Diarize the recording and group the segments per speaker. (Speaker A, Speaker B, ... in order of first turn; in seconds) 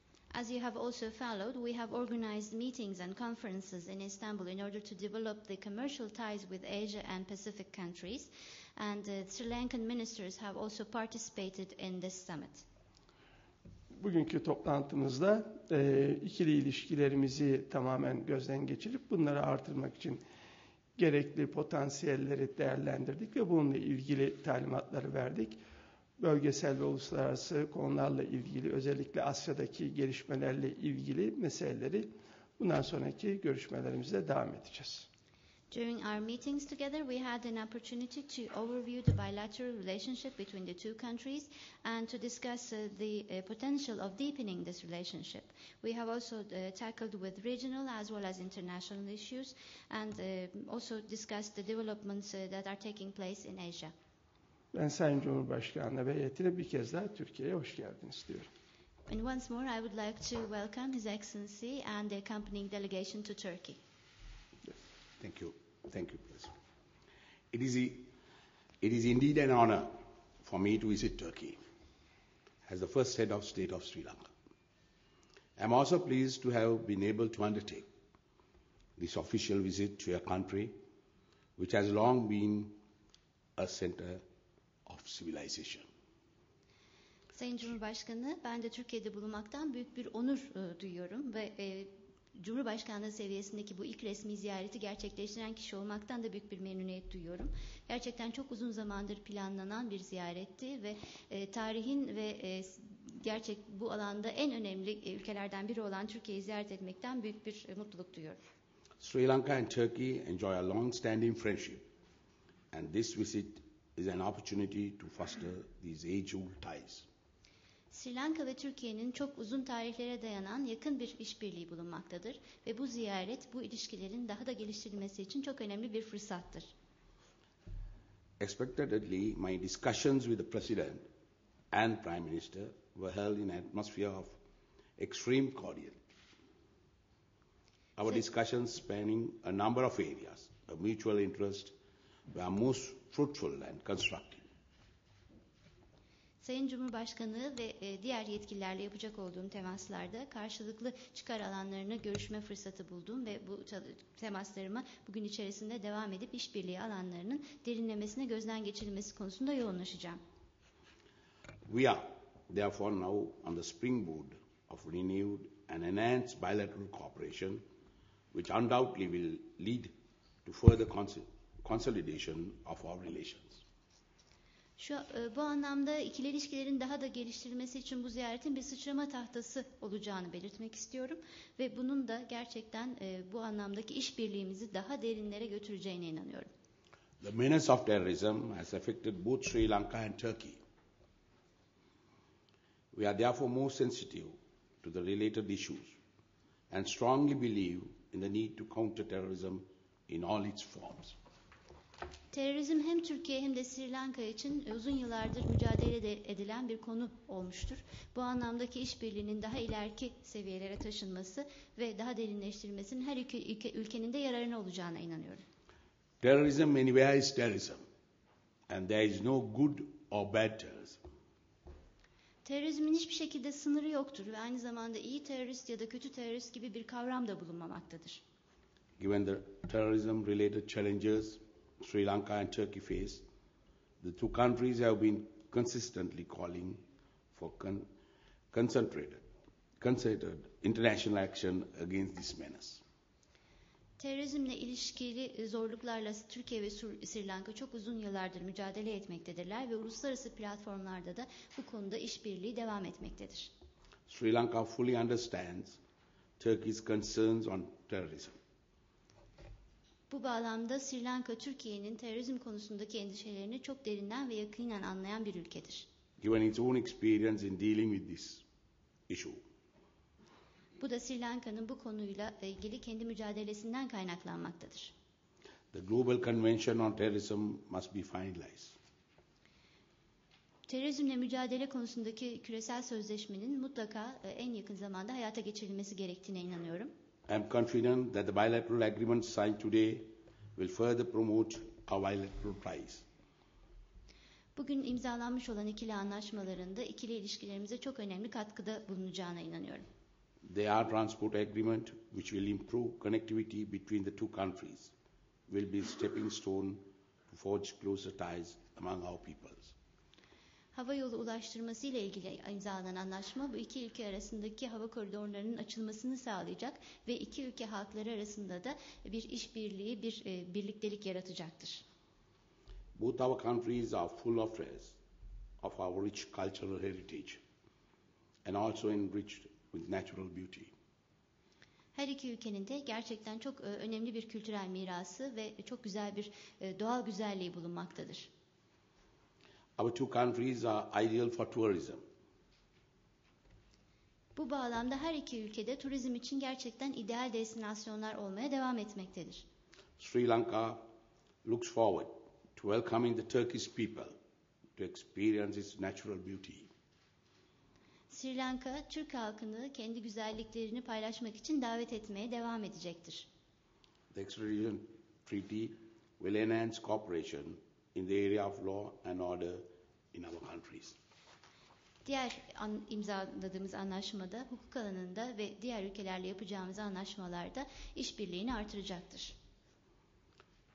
Speaker A: 0.3-12.7, 35.7-53.9, 59.1-63.8, 87.3-108.4, 117.9-126.7, 146.4-160.2, 174.8-186.5, 202.3-215.4, 222.4-228.2, 244.0-253.5, 260.1-265.9, 270.8-274.9, 280.7-286.9, 294.6-299.8, 310.7-321.9, 331.9-338.3, 344.4-349.5, 358.1-363.3, 372.1-379.4
Speaker B: 14.0-20.2, 21.0-25.6, 26.2-35.1, 54.7-58.5
Speaker C: 65.2-66.5, 67.5-68.1, 68.8-71.6, 72.7-74.3, 75.6-77.9, 79.0-80.7, 81.6-82.8, 83.6-84.2, 84.9-85.9, 109.0-111.9, 112.7-117.1, 128.4-131.0, 131.7-134.4, 135.0-136.0, 138.0-141.7, 142.3-144.4, 161.7-167.6, 168.3-169.9, 170.4-173.6, 187.2-190.6, 192.9-196.0, 196.7-201.2, 216.2-217.8, 218.7-221.0, 229.0-233.3, 234.0-237.9, 238.5-239.2, 239.8-242.8, 254.1-255.8, 256.4-258.4, 266.2-268.4, 269.1-269.4, 275.7-278.8, 287.3-293.1, 300.4-304.9, 305.5-309.7, 323.0-325.0, 325.6-327.4, 328.4-330.7, 339.8-342.0, 350.0-350.9, 351.4-354.1, 354.8-356.7, 364.1-371.0